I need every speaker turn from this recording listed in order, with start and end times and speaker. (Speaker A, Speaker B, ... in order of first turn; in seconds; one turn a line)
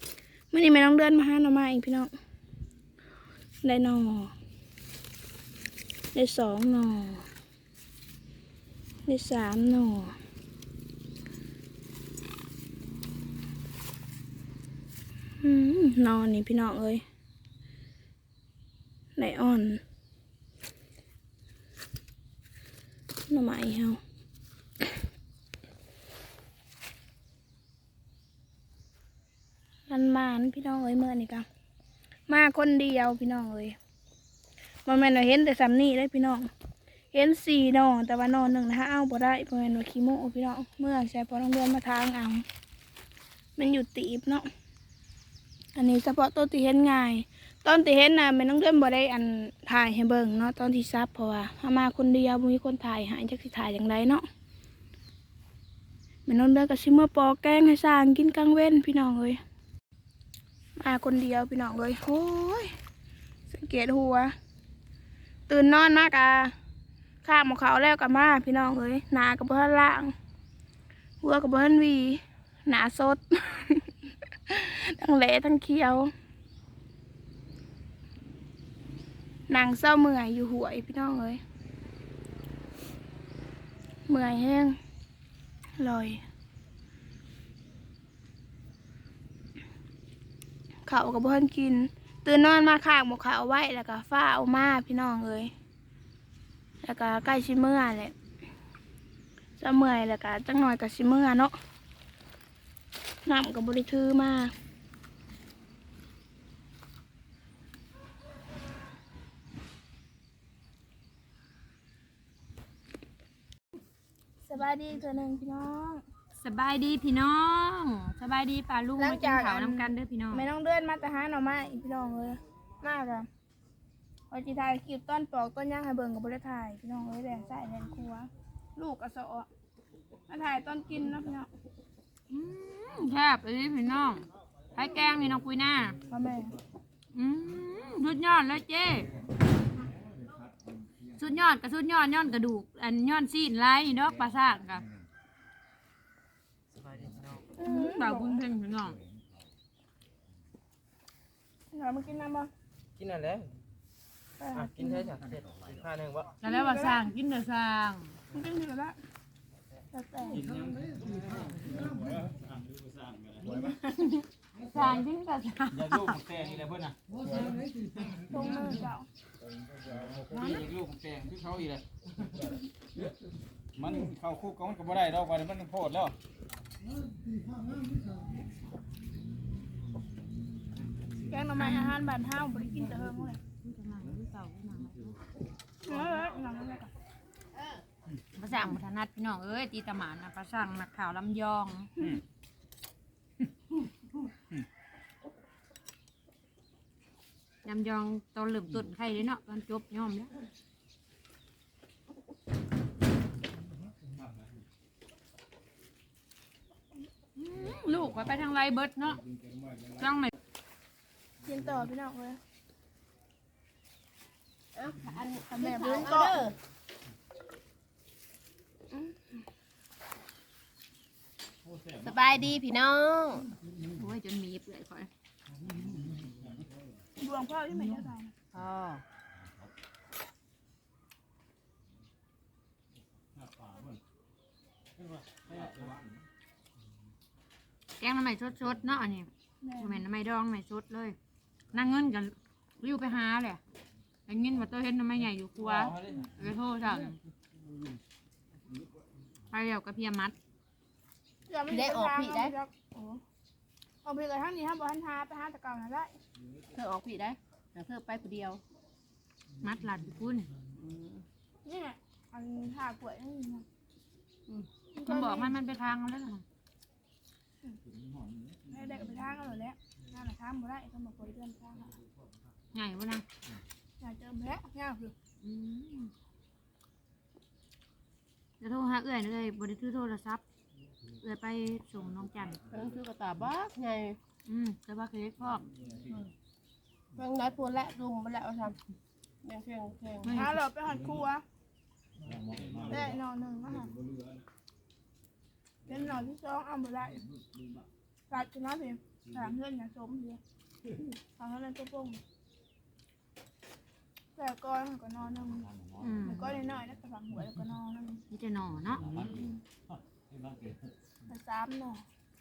Speaker A: 0.5-2.1
Speaker A: 3.6-4.3
Speaker A: 6.1-7.2
Speaker A: 9.1-10.1
Speaker A: 15.4-17.0
Speaker A: 19.1-19.8
Speaker A: 23.3-24.0
Speaker A: 29.9-31.4
Speaker A: 32.3-33.8
Speaker A: 34.9-36.5
Speaker A: 37.1-42.4
Speaker A: 43.6-44.5
Speaker A: 45.7-54.2
Speaker A: 56.2-59.4
Speaker A: 60.8-62.7
Speaker A: 63.5-64.3
Speaker A: 65.5-66.5
Speaker A: 67.2-70.1
Speaker A: 71.2-73.9
Speaker A: 74.5-76.1
Speaker A: 79.5-81.4
Speaker A: 84.1-84.8
Speaker A: 85.8-86.2
Speaker A: 90.8-95.5
Speaker A: 96.8-98.1
Speaker A: 99.6-101.5
Speaker A: 103.2-104.5
Speaker A: 114.4-116.0
Speaker B: 116.3-120.4
Speaker A: 119.0-123.3
Speaker A: 124.3-129.5
Speaker A: 130.3-131.5
Speaker B: 132.3-135.9
Speaker A: 136.1-136.5
Speaker B: 137.1-139.1
Speaker B: 141.2-144.9
Speaker A: 147.6-148.4
Speaker B: 147.6-149.0
Speaker A: 151.7-152.5
Speaker A: 154.4-155.1
Speaker C: 155.2-155.8
Speaker B: 156.4-158.2
Speaker A: 156.4-157.1
Speaker A: 158.3-159.0
Speaker A: 159.9-160.4
Speaker B: 163.7-166.2
Speaker C: 166.4-166.8
Speaker A: 168.3-169.1
Speaker B: 170.1-170.8
Speaker C: 171.0-171.7
Speaker C: 174.5-175.9
Speaker A: 181.3-183.4
Speaker B: 181.6-182.0
Speaker B: 183.6-185.2
Speaker A: 185.8-186.9
Speaker B: 188.3-191.9
Speaker B: 197.6-200.3
Speaker B: 207.3-209.2
Speaker B: 209.9-210.3
Speaker A: 211.4-212.4
Speaker D: 214.7-216.6
Speaker A: 215.5-216.4
Speaker D: 222.0-223.5
Speaker B: 223.9-225.1
Speaker A: 227.2-228.3
Speaker D: 228.5-229.0
Speaker B: 238.0-241.2
Speaker A: 239.6-240.0
Speaker B: 241.7-243.6
Speaker B: 244.3-247.2
Speaker B: 249.5-250.3
Speaker A: 251.5-253.2
Speaker D: 251.7-252.5
Speaker A: 254.0-256.1
Speaker D: 256.7-258.6
Speaker B: 259.6-260.5
Speaker D: 260.8-261.2
Speaker A: 261.6-263.6
Speaker A: 264.9-265.5
Speaker B: 265.0-266.4
Speaker A: 268.7-272.0
Speaker B: 272.7-273.2
Speaker A: 274.0-275.1
Speaker B: 275.4-276.1
Speaker B: 278.6-280.4
Speaker B: 281.2-282.6
Speaker D: 282.7-284.2
Speaker B: 284.4-285.6
Speaker D: 287.1-288.8
Speaker D: 289.4-290.4
Speaker B: 290.2-290.5
Speaker A: 290.3-291.4
Speaker A: 292.9-293.9
Speaker A: 295.9-297.2
Speaker A: 298.3-300.4
Speaker A: 301.4-302.2
Speaker A: 304.4-305.7
Speaker B: 306.0-306.5
Speaker A: 306.2-308.2
Speaker B: 308.3-309.1
Speaker A: 311.3-312.0